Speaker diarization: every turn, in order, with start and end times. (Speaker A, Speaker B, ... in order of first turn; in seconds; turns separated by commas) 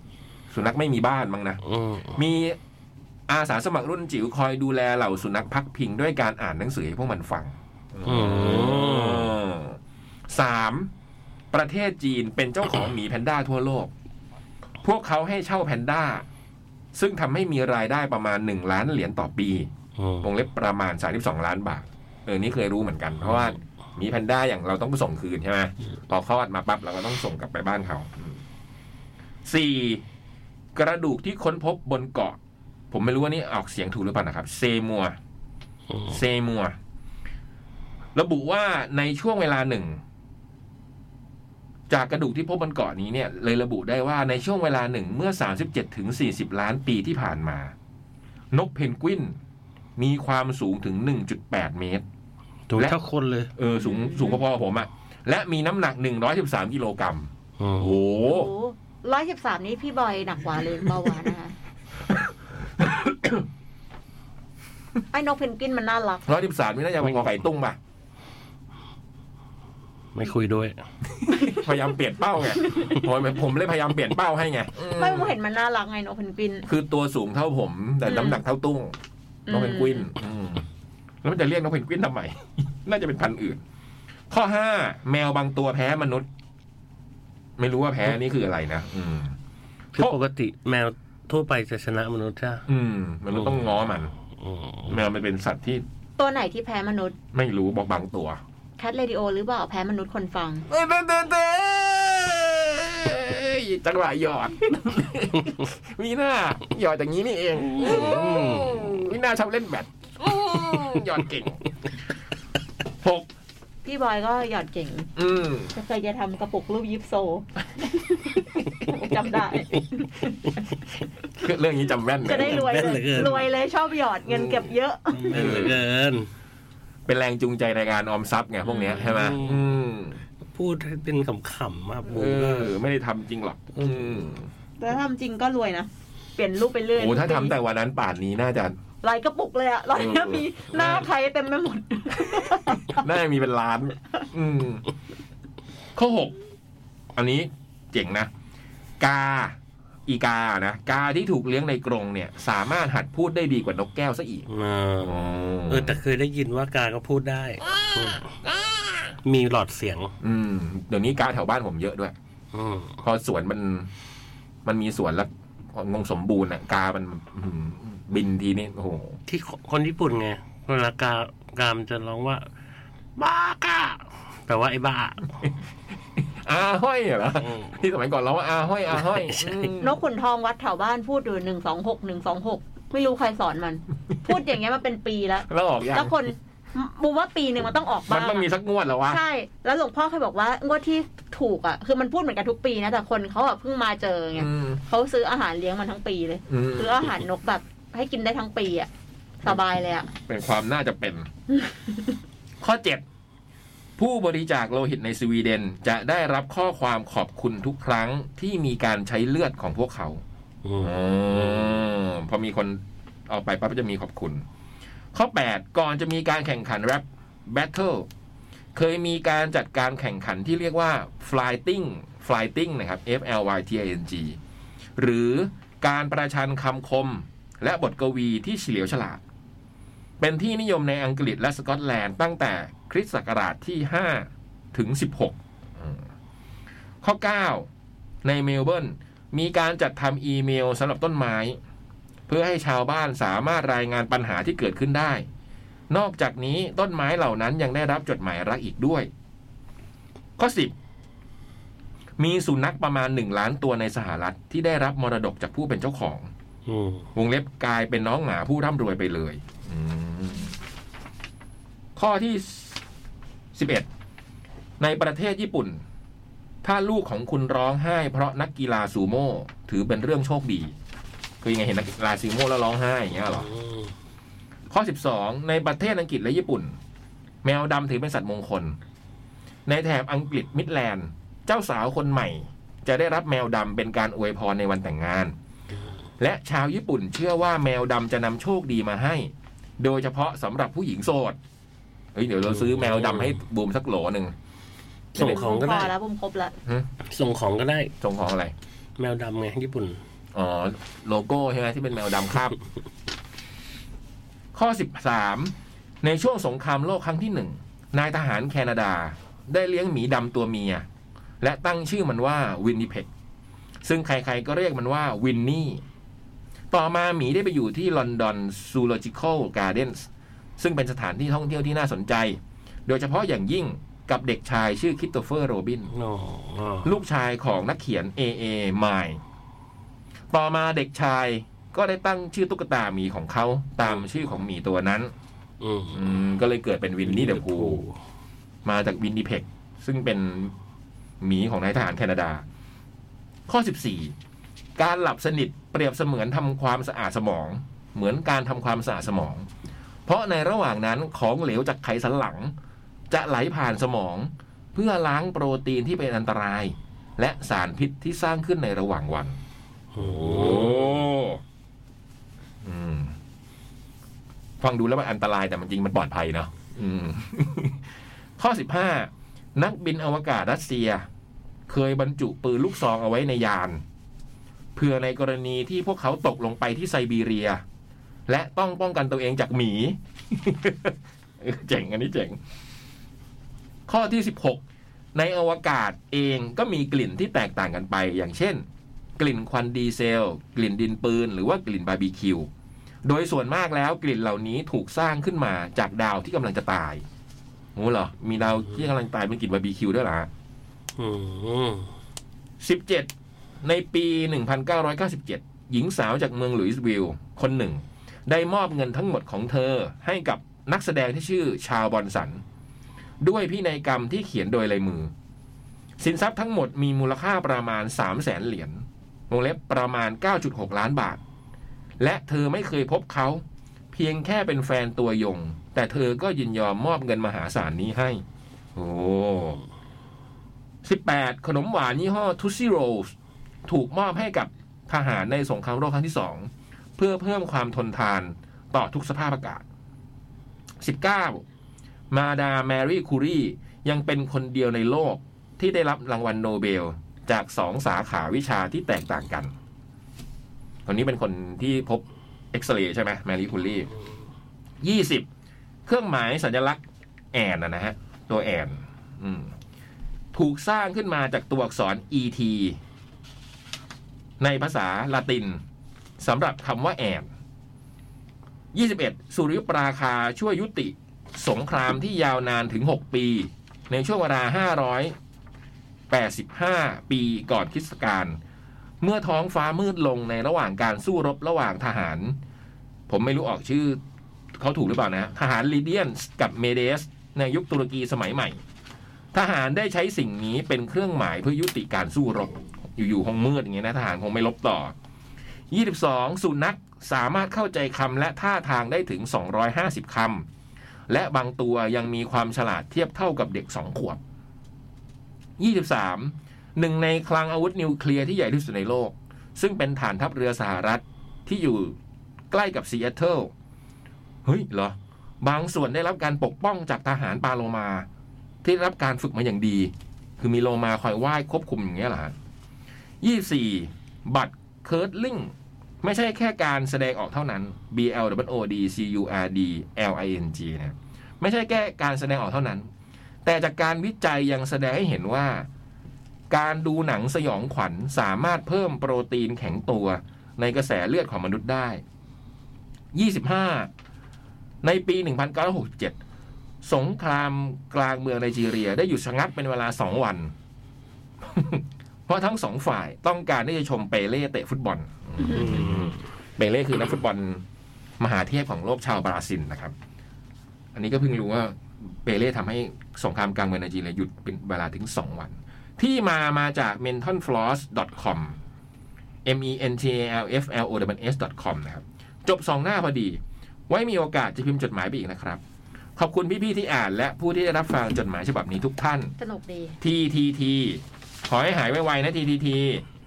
Speaker A: 0.5-1.6, Speaker B: 1.6-2.2, Speaker A: 2.1-2.6, Speaker A: 3.3-10.9, Speaker B: 8.0-9.3, Speaker A: 11.5-13.9, Speaker A: 14.8-16.2, Speaker A: 16.9-19.7, Speaker B: 20.0-20.3, Speaker A: 20.2-28.4, Speaker A: 29.4-30.0, Speaker A: 30.7-32.4, Speaker A: 32.9-35.2, Speaker B: 35.9-36.1, Speaker A: 36.1-36.8, Speaker A: 38.1-40.0, Speaker A: 41.9-47.7, Speaker A: 48.5-49.4, Speaker A: 50.0-52.0, Speaker B: 52.7-53.5, Speaker A: 53.5-58.5, Speaker C: 53.8-54.4, Speaker B: 57.6-58.0, Speaker C: 58.2-61.5, Speaker A: 62.8-63.4, Speaker C: 65.1-66.2, Speaker A: 66.3-67.8, Speaker B: 70.1-70.8, Speaker A: 71.2-75.3, Speaker C: 71.3-71.7, Speaker C: 72.6-73.0, Speaker C: 74.9-76.7, Speaker A: 76.7-78.9, Speaker C: 78.0-78.4, Speaker C: 79.5-80.1, Speaker A: 79.5-80.7, Speaker A: 81.2-83.6, Speaker A: 84.3-86.3, Speaker A: 87.6-89.3, Speaker B: 89.9-92.7, Speaker A: 92.7-94.1, Speaker B: 93.4-93.6, Speaker B: 94.3-95.0, Speaker A: 94.9-95.8, Speaker C: 96.2-97.2, Speaker A: 97.3-98.4, Speaker C: 98.8-100.7, Speaker A: 100.7-111.6, Speaker B: 107.8-108.7, Speaker A: 113.0-113.3, Speaker C: 113.8-115.1, Speaker A: 115.2-115.7, Speaker C: 115.7-120.6, Speaker A: 121.3-123.0, Speaker C: 122.2-125.7, Speaker B: 122.3-123.5, Speaker A: 124.2-124.7, Speaker B: 125.1-126.3, Speaker A: 125.3-125.8, Speaker A: 127.0-130.2, Speaker B: 129.0-129.7, Speaker B: 130.5-132.7, Speaker A: 132.1-134.5, Speaker B: 133.8-134.1, Speaker C: 134.8-137.5, Speaker A: 136.9-138.8, Speaker C: 139.0-143.0, Speaker A: 139.9-141.1, Speaker A: 142.2-144.8, Speaker A: 145.9-146.3, Speaker A: 147.1-148.3, Speaker A: 149.0-154.5, Speaker B: 154.5-158.3, Speaker A: 155.0-156.0, Speaker A: 158.0-158.7, Speaker B: 159.2-160.1, Speaker A: 160.2-162.1, Speaker B: 162.5-163.0, Speaker A: 163.0-163.9, Speaker A: 164.6-169.2, Speaker B: 169.3-172.5, Speaker B: 173.2-175.3, Speaker A: 176.2-180.0, Speaker B: 177.4-177.8, Speaker B: 179.0-179.7, Speaker C: 179.8-188.5, Speaker A: 185.5-186.3, Speaker A: 188.1-189.2, Speaker C: 189.1-198.9, Speaker A: 194.3-194.8, Speaker A: 196.5-197.1, Speaker C: 199.4-200.1, Speaker A: 200.2-201.3, Speaker C: 201.5-202.1, Speaker A: 202.6-203.0, Speaker A: 204.0-210.2, Speaker B: 210.6-211.8, Speaker A: 210.8-214.4, Speaker A: 215.1-218.1, Speaker A: 218.7-224.4, Speaker A: 225.0-229.2, Speaker A: 230.2-236.1, Speaker A: 237.0-237.7, Speaker A: 238.2-241.6, Speaker A: 242.3-245.2, Speaker A: 245.9-249.1, Speaker A: 250.4-250.7, Speaker A: 252.2-256.3, Speaker B: 256.6-257.1, Speaker A: 257.1-260.6, Speaker A: 261.9-262.8, Speaker A: 263.5-263.9, Speaker A: 264.8-265.8, Speaker A: 266.6-270.7, Speaker A: 271.4-273.5, Speaker B: 273.3-273.9, Speaker A: 274.7-276.8, Speaker A: 277.4-278.8, Speaker A: 279.6-285.3, Speaker A: 286.2-291.4, Speaker A: 292.1-294.3, Speaker B: 292.5-293.3, Speaker B: 295.1-295.9, Speaker C: 295.1-296.6, Speaker A: 295.1-295.4, Speaker B: 297.0-297.9, Speaker A: 298.0-298.5, Speaker B: 299.0-300.0, Speaker A: 300.3-302.6, Speaker A: 304.5-310.9, Speaker A: 311.4-313.1, Speaker A: 313.8-315.8, Speaker A: 316.7-325.9, Speaker B: 325.9-326.9, Speaker A: 326.8-329.2, Speaker A: 330.3-335.1, Speaker B: 335.6-336.2, Speaker A: 335.9-337.8, Speaker B: 337.0-338.0, Speaker A: 338.6-340.5, Speaker A: 341.2-342.4, Speaker A: 343.5-344.1, Speaker A: 344.8-349.5, Speaker A: 350.1-352.5, Speaker A: 353.1-359.4, Speaker B: 359.9-361.0, Speaker A: 360.0-361.4, Speaker A: 362.6-363.1, Speaker A: 364.6-371.1, Speaker A: 371.7-373.8, Speaker A: 374.7-377.6, Speaker A: 378.3-382.4, Speaker A: 383.9-384.6, Speaker A: 385.1-388.6, Speaker A: 389.2-392.5, Speaker A: 393.0-397.0, Speaker A: 397.7-400.3, Speaker B: 401.0-401.9, Speaker A: 402.6-403.1, Speaker A: 403.6-412.4, Speaker A: 413.2-415.1, Speaker A: 416.0-421.2, Speaker A: 422.0-428.2, Speaker A: 428.7-429.6, Speaker A: 430.8-433.1, Speaker A: 433.6-439.6, Speaker A: 440.8-441.4, Speaker A: 442.1-449.5, Speaker A: 450.9-453.9, Speaker A: 454.8-455.3, Speaker A: 455.9-459.5, Speaker A: 460.3-462.8, Speaker A: 464.4-465.6, Speaker A: 466.2-467.3, Speaker A: 468.7-475.1, Speaker A: 476.1-478.4, Speaker A: 479.0-482.4, Speaker A: 483.1-484.0, Speaker A: 484.5-488.6, Speaker A: 489.3-494.9, Speaker A: 495.7-500.4, Speaker A: 501.1-504.2, Speaker A: 505.6-511.9, Speaker A: 512.5-513.5, Speaker A: 514.4-518.1, Speaker A: 518.6-522.3, Speaker A: 523.2-532.9, Speaker A: 533.4-535.7, Speaker A: 536.5-542.0, Speaker A: 543.1-543.9, Speaker A: 544.8-546.2, Speaker A: 546.8-550.5, Speaker A: 551.4-557.6, Speaker B: 555.5-556.1, Speaker A: 558.2-559.9, Speaker A: 560.9-568.6, Speaker A: 569.4-575.6, Speaker A: 576.1-579.3, Speaker C: 579.4-580.0, Speaker A: 580.0-583.0